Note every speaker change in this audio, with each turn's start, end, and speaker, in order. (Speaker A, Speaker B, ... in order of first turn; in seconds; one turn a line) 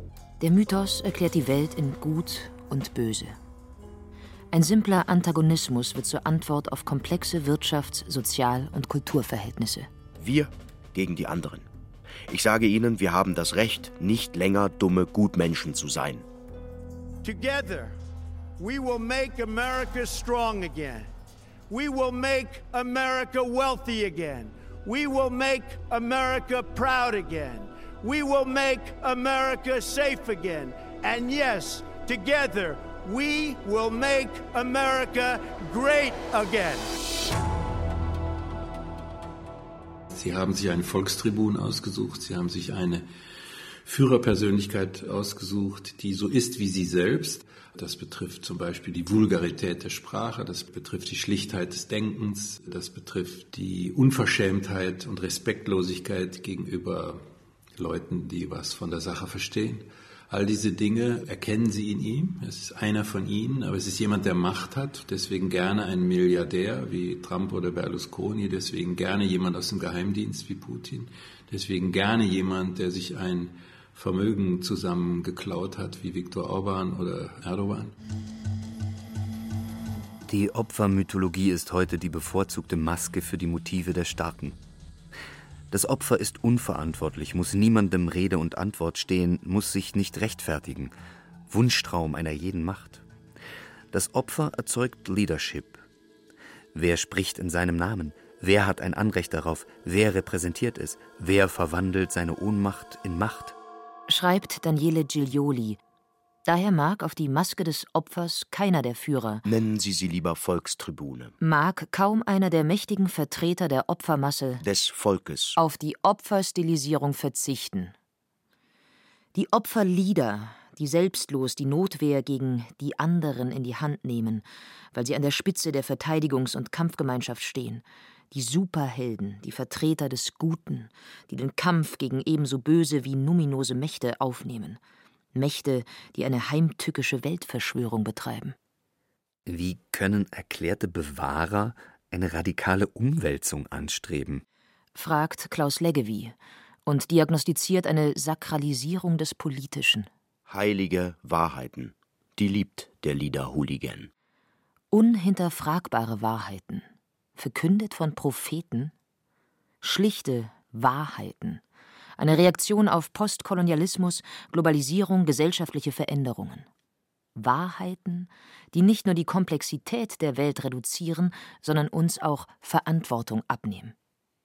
Speaker A: 0.4-3.4
Speaker A: 4.5-9.9
Speaker B: 10.2-11.7
Speaker B: 12.3-16.2
Speaker C: 17.2-17.9
Speaker C: 18.6-21.1
Speaker C: 21.7-36.9
Speaker D: 40.1-43.0
Speaker D: 43.9-57.2
Speaker D: 57.8-77.9
Speaker E: 80.3-84.6
Speaker E: 85.7-90.9
Speaker E: 91.5-93.0
Speaker E: 93.9-95.8
Speaker E: 96.7-103.5
Speaker A: 104.1-105.8
Speaker A: 106.5-109.4
Speaker B: 109.4-111.3
Speaker A: 111.4-114.6
Speaker B: 114.6-115.6
Speaker A: 115.5-117.9
Speaker A: 119.3-134.8
Speaker A: 135.3-138.6
Speaker E: 139.4-144.4
Speaker A: 144.9-150.1
Speaker B: 150.4-154.1
Speaker A: 154.9-158.9
Speaker A: 159.8-161.6
Speaker A: 162.2-166.7
Speaker A: 167.3-173.9